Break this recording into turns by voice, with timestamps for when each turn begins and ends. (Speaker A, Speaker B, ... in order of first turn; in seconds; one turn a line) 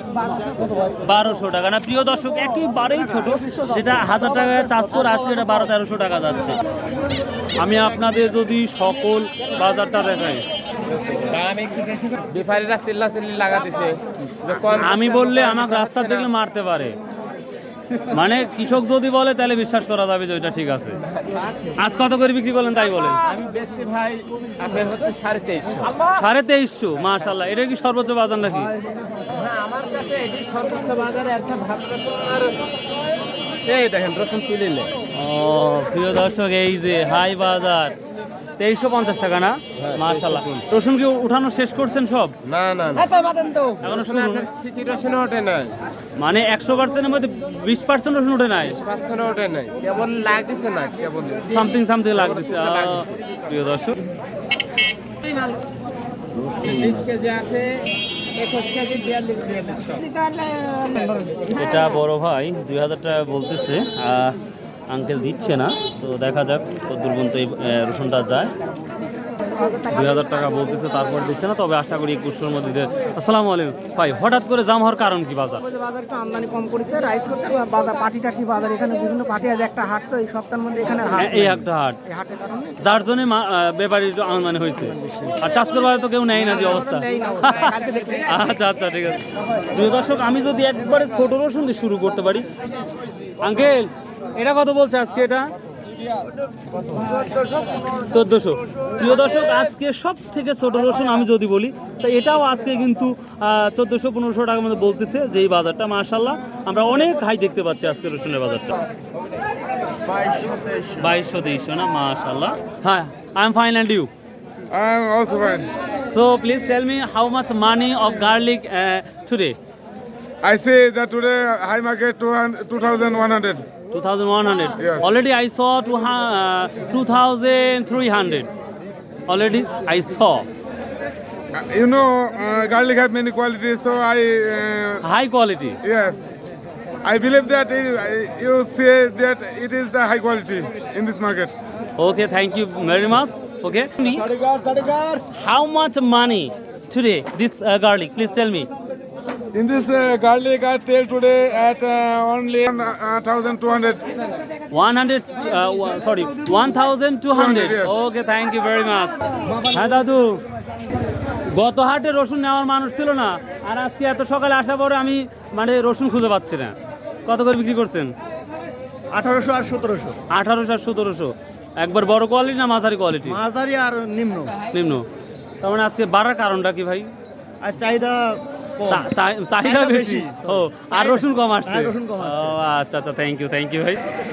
Speaker A: 0.5-0.9
Speaker B: 1.0-6.6
Speaker B: 7.6-10.4
Speaker C: 11.1-16.3
Speaker B: 14.7-17.0
Speaker B: 17.9-21.0
Speaker B: 21.8-23.2
Speaker C: 23.2-26.0
Speaker B: 26.0-28.7
Speaker C: 29.2-32.6
Speaker C: 33.6-34.9
Speaker B: 35.1-38.0
Speaker B: 38.6-42.4
Speaker C: 39.8-40.6
Speaker C: 42.4-45.8
Speaker B: 43.8-44.5
Speaker B: 46.2-48.8
Speaker C: 48.7-53.1
Speaker B: 51.5-54.0
Speaker C: 56.5-60.2
Speaker D: 60.2-61.4
Speaker B: 61.5-64.4
Speaker B: 64.9-68.5
Speaker B: 69.6-75.8
Speaker D: 75.7-82.8
Speaker B: 81.1-82.0
Speaker B: 82.8-92.5
Speaker D: 86.7-88.3
Speaker B: 93.4-95.5
Speaker B: 98.1-108.8
Speaker C: 110.1-110.9
Speaker B: 110.9-114.1
Speaker E: 114.7-115.7
Speaker B: 116.1-119.6
Speaker E: 120.4-123.6
Speaker B: 123.9-128.5
Speaker E: 124.8-125.1
Speaker B: 129.3-130.5
Speaker E: 131.5-135.0
Speaker B: 135.0-135.8
Speaker E: 135.8-136.3
Speaker E: 137.0-141.5
Speaker B: 142.0-144.2
Speaker E: 144.2-145.2
Speaker B: 145.3-148.7
Speaker E: 149.5-154.0
Speaker B: 154.7-160.4
Speaker E: 157.3-157.9
Speaker B: 161.5-166.8
Speaker B: 167.2-168.1
Speaker A: 169.1-170.2
Speaker B: 170.3-173.4
Speaker A: 173.2-174.6
Speaker B: 174.7-175.1
Speaker B: 175.6-177.1
Speaker A: 177.6-179.0
Speaker B: 178.8-184.0
Speaker A: 179.6-182.6